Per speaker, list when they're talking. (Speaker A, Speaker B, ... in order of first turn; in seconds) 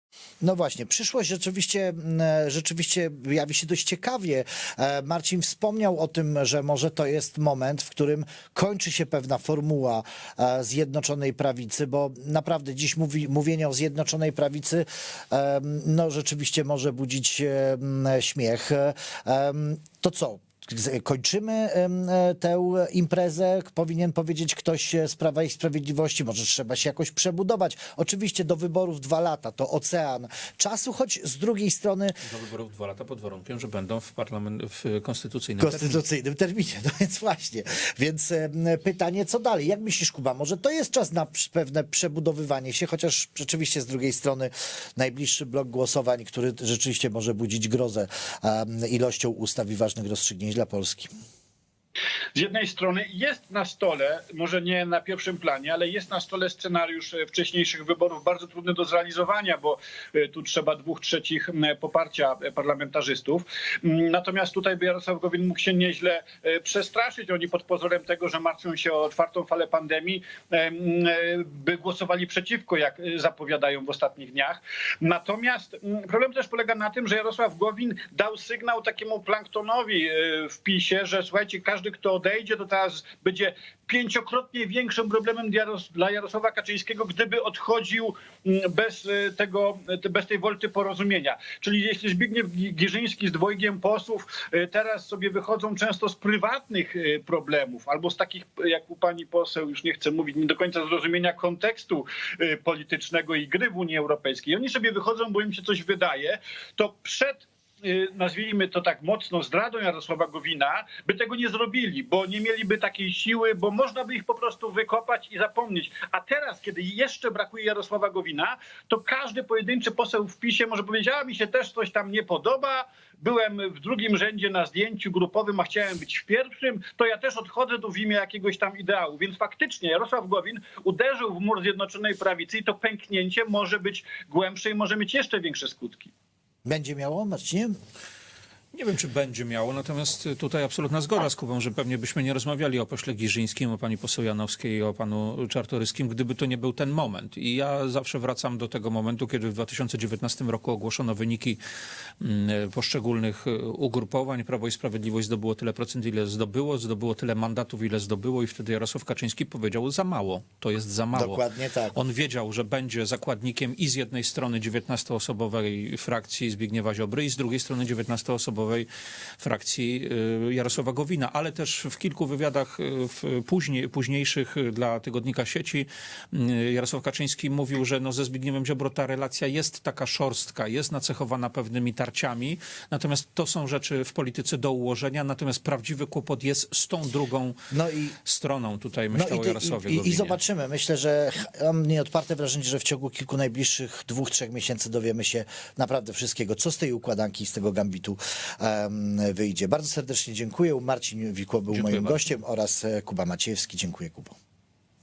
Speaker A: 0.4-32.2, 35.6-51.1, 136.6-137.8, 161.1-162.0, 187.7-188.1, 189.1-204.3
Speaker B: 32.2-36.0, 138.7-151.6, 152.2-168.9, 169.4-187.6, 188.2-190.4, 201.7-202.4
Speaker C: 52.3-136.1